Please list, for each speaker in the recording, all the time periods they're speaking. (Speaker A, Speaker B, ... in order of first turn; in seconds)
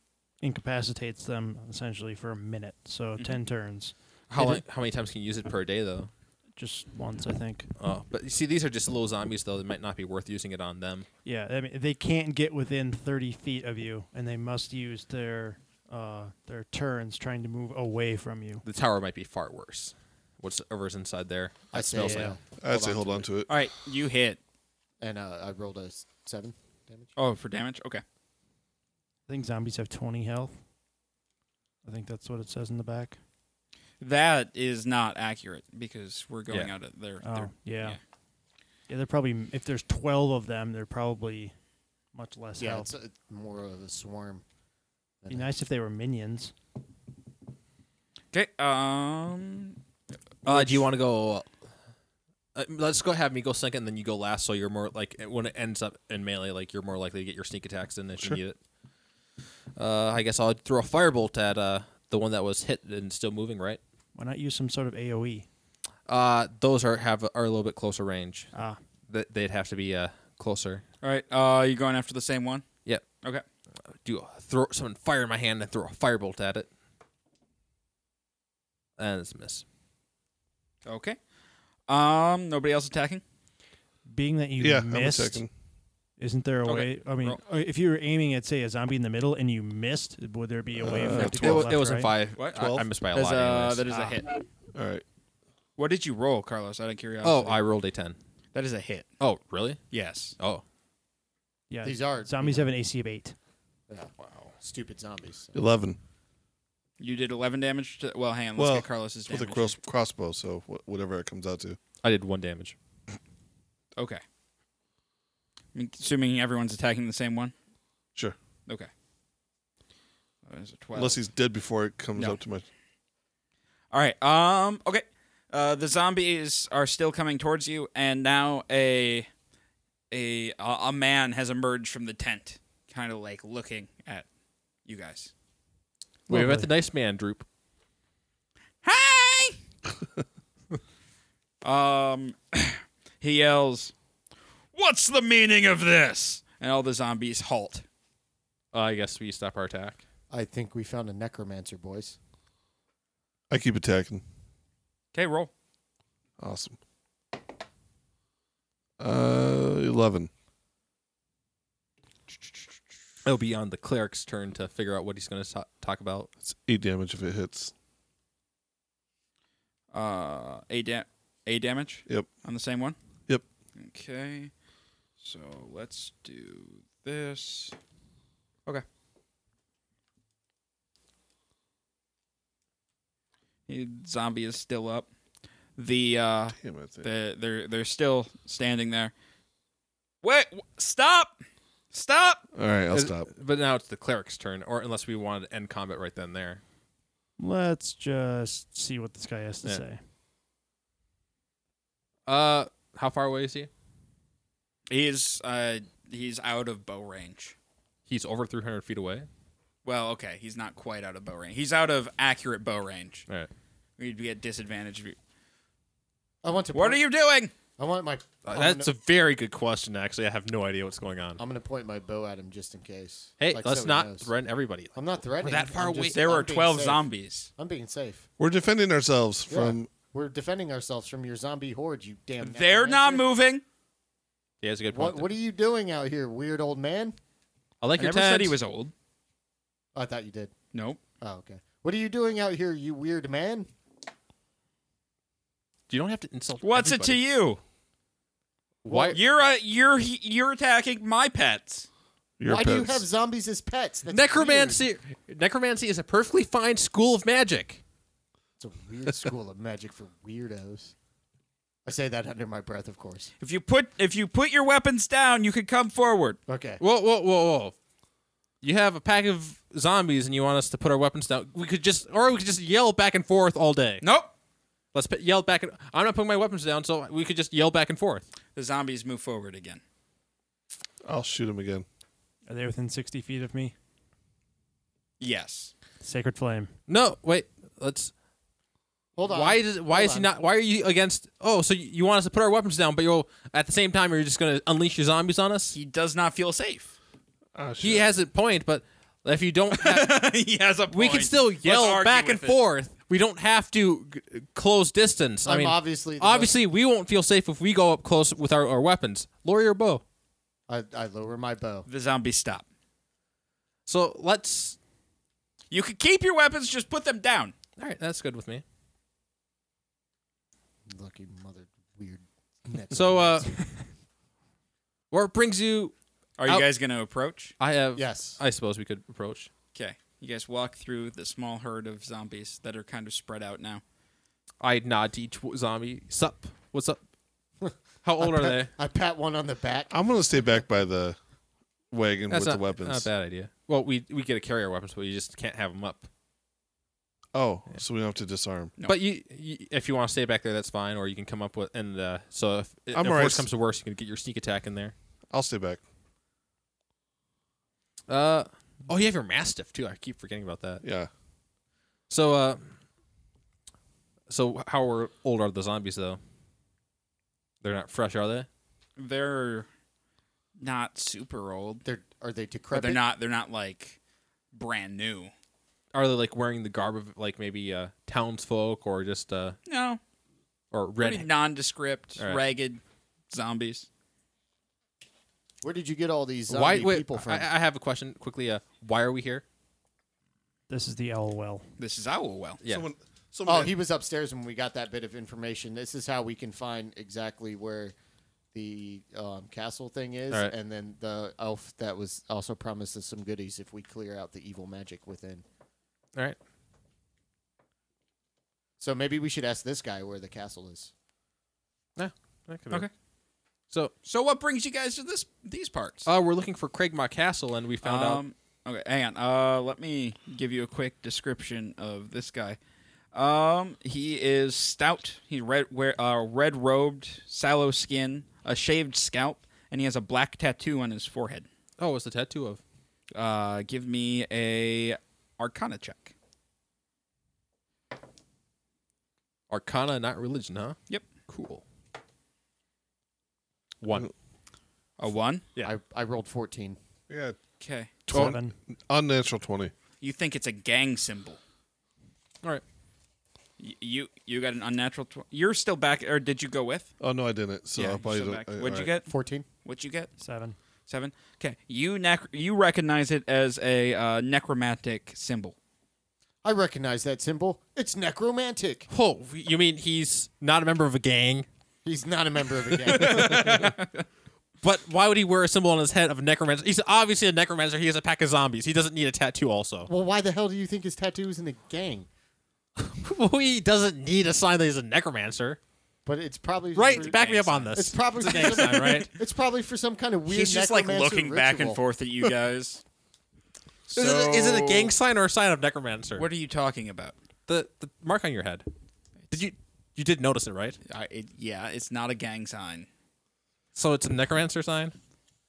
Speaker A: 0.4-4.6, 6.6-7.7, 11.2-18.6, 21.9-22.4, 29.3-30.6, 31.8-33.2, 37.2-38.0, 38.9-41.5, 42.1-42.9, 45.3-46.5, 64.2-65.5, 68.5-68.8, 84.1-85.4, 86.2-92.1, 93.9-94.2, 101.7-103.3, 136.3-136.7, 197.4-200.0, 282.5-283.7, 286.0-286.7, 390.7-391.6, 448.1-448.5, 460.2-460.6
Speaker B: 4.3-6.1, 7.8-11.1, 18.6-22.4, 50.5-51.5, 52.5-58.6, 59.8-63.8, 66.1-68.5, 69.1-70.8, 73.9-76.7, 79.0-79.6, 91.1-93.8, 97.2-98.2, 99.2-99.8, 100.4-100.6, 112.0-112.8, 136.3-137.5, 148.7-150.0, 163.2-166.3, 192.9-196.6, 202.2-203.7, 208.1-209.3, 218.5-221.4, 223.4-226.2, 234.6-235.3, 237.8-238.6, 245.9-247.2, 248.8-249.2, 254.1-257.8, 266.8-267.8, 268.6-274.0, 274.9-278.2, 286.9-288.1, 289.3-295.8, 297.8-300.3, 300.9-310.0, 313.9-314.8, 317.8-318.6, 322.9-323.5, 325.1-325.9, 327.6-329.5, 334.6-337.0, 338.0-338.7, 342.3-346.1, 348.9-354.9, 358.1-360.8, 362.1-362.7, 364.3-366.2, 367.6-368.5, 375.9-379.6, 380.7-381.3, 382.2-382.4, 386.5-389.4, 392.6-392.9, 412.0-412.9, 416.1-418.2, 431.8-432.6, 439.5-441.6, 443.8-444.1, 468.9-471.5, 472.9-473.8, 474.6-479.9, 482.8-485.6, 486.8-489.1, 493.9-496.3, 497.5-498.6, 499.3-500.8, 503.8-504.9
Speaker C: 21.7-23.3, 25.0-27.1, 42.6-44.4, 45.2-45.5, 101.8-102.7, 103.9-105.6, 150.3-152.2, 216.4-217.0, 217.8-218.9, 221.4-224.3, 224.9-227.1, 227.6-228.2, 229.5-233.2, 234.9-237.2, 239.9-240.5, 241.2-243.7, 248.9-249.2, 252.5-254.8, 258.6-260.9, 261.9-263.3, 266.5-266.8, 289.2-290.3, 305.4-306.6, 310.7-311.9, 320.9-323.7, 328.0-328.4, 337.6-340.0, 371.9-373.0, 385.6-387.5, 393.4-397.9, 398.5-405.4, 408.8-410.9, 445.6-446.8, 459.1-459.5, 466.4-468.9, 471.9-473.6, 479.9-482.1, 486.1-491.8
Speaker D: 22.6-23.5, 84.6-85.5, 90.8-91.8, 92.5-92.8, 94.8-95.0, 105.5-106.0, 108.6-111.8, 121.0-122.7, 153.5-154.2, 156.4-156.8, 159.0-160.3, 166.4-167.7, 186.6-187.1, 192.5-193.3, 228.4-229.9, 252.4-253.0, 281.0-281.9, 297.6-298.1, 339.9-341.2, 341.9-343.1, 347.3-348.7, 352.9-353.5, 355.3-355.8, 360.8-361.1, 392.6-393.7, 447.1-447.4, 448.1-449.7, 457.0-458.9
Speaker E: 23.5-24.4, 27.2-28.0, 34.0-38.0, 48.3-49.8, 71.0-72.7, 80.9-81.2, 81.9-83.2, 86.7-87.4, 92.4-94.4, 95.8-97.6, 98.5-99.1, 99.9-100.4, 107.0-109.7, 114.0-114.2, 115.7-117.5, 120.5-121.2, 123.9-129.3, 130.1-134.3, 134.9-135.3, 138.8-139.6, 141.6-143.9, 144.7-147.8, 155.1-155.5, 169.9-173.0, 173.8-174.5, 175.2-177.8, 183.7-185.1, 185.8-189.1, 190.2-191.4, 191.9-192.4, 204.9-207.6, 209.8-213.2, 214.0-215.2, 216.7-217.5, 226.1-227.5, 232.4-233.6, 238.0-238.9, 240.7-241.0, 246.6-247.6, 249.1-251.9, 263.4-266.4, 274.0-274.3, 278.6-279.8, 285.2-285.7, 295.7-296.9, 299.7-302.6, 311.9-312.6, 315.7-317.5, 326.4-327.5, 329.7-333.8, 369.0-369.7, 370.6-371.8, 372.7-374.0, 374.5-375.3, 379.6-380.0, 381.0-383.9, 391.8-392.6, 414.1-416.1, 417.8-422.6, 423.1-431.5, 433.1-436.1, 445.0-445.5, 447.6-447.9, 450.0-451.4, 453.6-456.9, 457.8-459.1, 459.6-460.1, 460.9-465.6, 472.9-474.0, 486.9-487.7, 490.3-492.8, 493.9-494.9, 496.1-497.1, 500.9-502.9